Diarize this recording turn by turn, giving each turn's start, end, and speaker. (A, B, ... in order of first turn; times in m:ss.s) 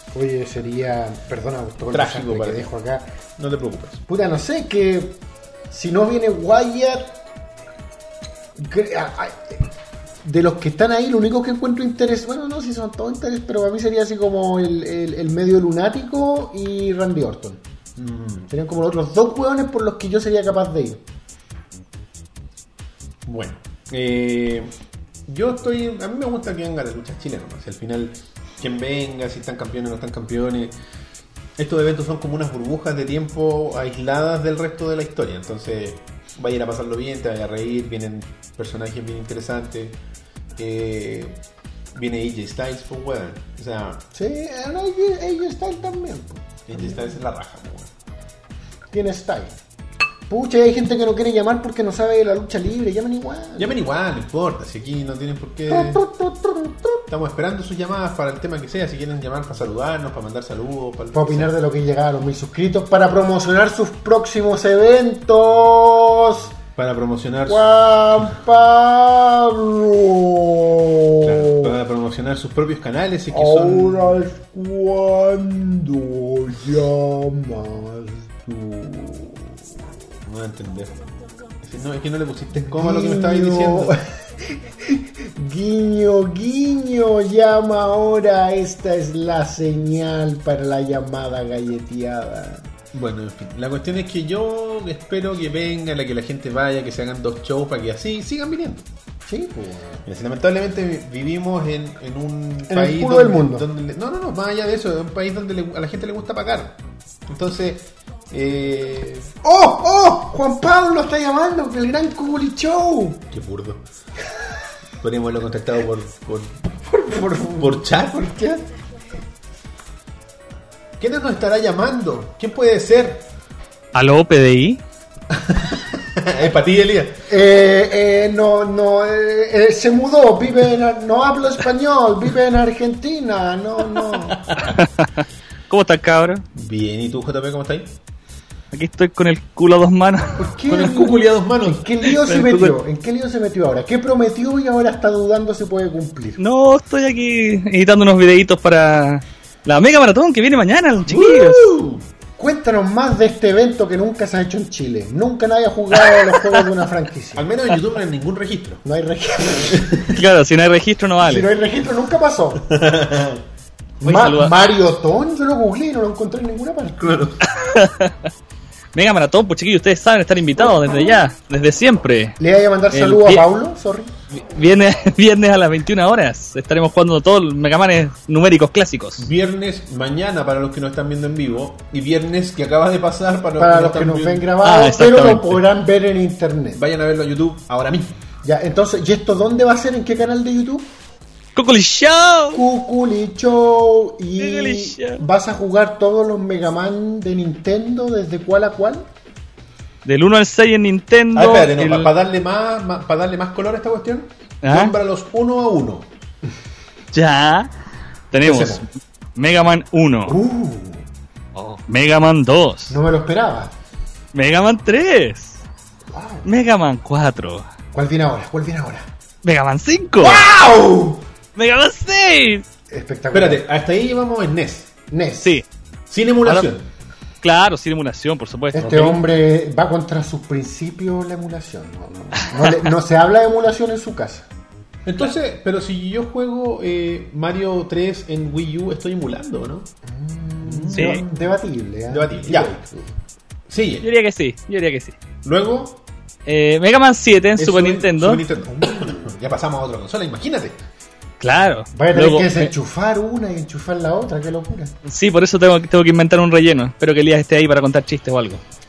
0:00.1-0:03.1 A
0:01.9-0:02.7 B
0:03.4-0:04.0 B
0:04.1-0:07.2 A
0:08.6-0:09.7 A
0:10.2-0:17.6 A
0:18.0-0:18.5 B
0:18.5-0:21.0 A
0:23.3-0:24.7 B
0:25.3-0:30.7 B
0:31.6-0:40.0 B
0:40.6-0:41.4 B
0:41.9-0:44.0 B
0:44.1-0:47.2 A
0:46.6-0:47.9 B
0:48.9-0:49.6 A
0:50.3-0:53.8 A
0:53.6-0:56.0 B
0:55.7-0:57.0 A
0:57.1-1:01.5 B
1:01.1-1:06.6 A
1:06.8-1:08.0 B
1:07.5-1:11.7 A
1:11.2-1:14.2 B
1:13.3-1:19.2 A
1:20.2-1:21.0 B
1:21.6-1:24.0 B
1:22.6-1:32.7 A
1:32.9-1:38.9 B
1:39.3-1:40.0 A
1:40.0-1:49.4 B
1:42.7-1:43.7 A
1:49.4-1:53.3 A
1:53.3-1:53.8 B
1:55.0-1:56.6 B
1:56.8-1:58.6 A
1:57.5-1:58.3 B
2:01.0-2:03.3 B
2:03.9-2:04.8 C
2:05.4-2:07.3 B
2:07.3-2:14.5 A
2:14.6-2:15.1 C
2:15.7-2:16.4 C
2:16.5-2:17.9 B
2:18.7-2:20.4 C
2:20.4-2:26.4 A
2:20.6-2:22.1 B
2:22.2-2:22.7 C
2:26.4-2:31.7 C
2:31.1-2:32.0 B
2:32.4-2:37.5 A
2:36.1-2:36.6 C
2:37.4-2:38.8 B
2:38.8-2:40.0 A
2:39.7-2:40.1 B
2:40.1-2:41.5 C
2:41.2-2:42.6 A
2:42.6-2:43.4 B
2:44.0-2:47.1 A
2:44.0-2:44.5 C
2:47.0-2:47.5 B
2:47.4-2:48.1 C
2:49.0-2:52.4 C
2:52.4-2:54.1 A
2:52.9-2:53.4 C
2:54.3-2:59.3 C
2:59.2-3:04.5 B
3:03.6-3:06.8 A
3:04.6-3:05.6 C
3:06.7-3:08.2 B
3:08.4-3:10.9 A
3:11.6-3:12.6 C
3:12.5-3:19.1 A
3:14.4-3:15.2 C
3:20.0-3:22.1 C
3:21.3-3:26.1 B
3:24.6-3:25.0 C
3:27.1-3:27.7 C
3:28.3-3:28.8 C
3:28.4-3:28.8 B
3:29.4-3:30.4 C
3:30.3-3:31.0 A
3:31.6-3:33.0 C
3:32.9-3:33.7 A
3:34.3-3:35.6 C
3:36.1-3:36.5 A
3:36.4-3:37.6 C
3:37.9-3:39.1 A
3:39.4-3:40.5 C
3:40.2-3:41.2 B
3:41.6-3:42.6 C
3:42.9-3:43.6 A
3:43.3-3:44.9 B
3:45.1-3:45.6 A
3:46.1-3:46.9 B
3:47.4-3:49.2 C
3:48.7-3:54.5 A
3:48.8-3:49.2 B
3:55.0-3:59.9 B
4:00.1-4:03.2 A
4:00.6-4:01.4 B
4:00.9-4:01.2 C
4:02.1-4:02.7 B
4:03.7-4:04.1 B
4:04.0-4:05.2 C
4:05.4-4:06.0 B
4:06.4-4:08.4 C
4:07.6-4:10.8 B
4:08.7-4:09.3 A
4:11.4-4:12.7 C
4:11.9-4:14.9 A
4:15.0-4:18.6 C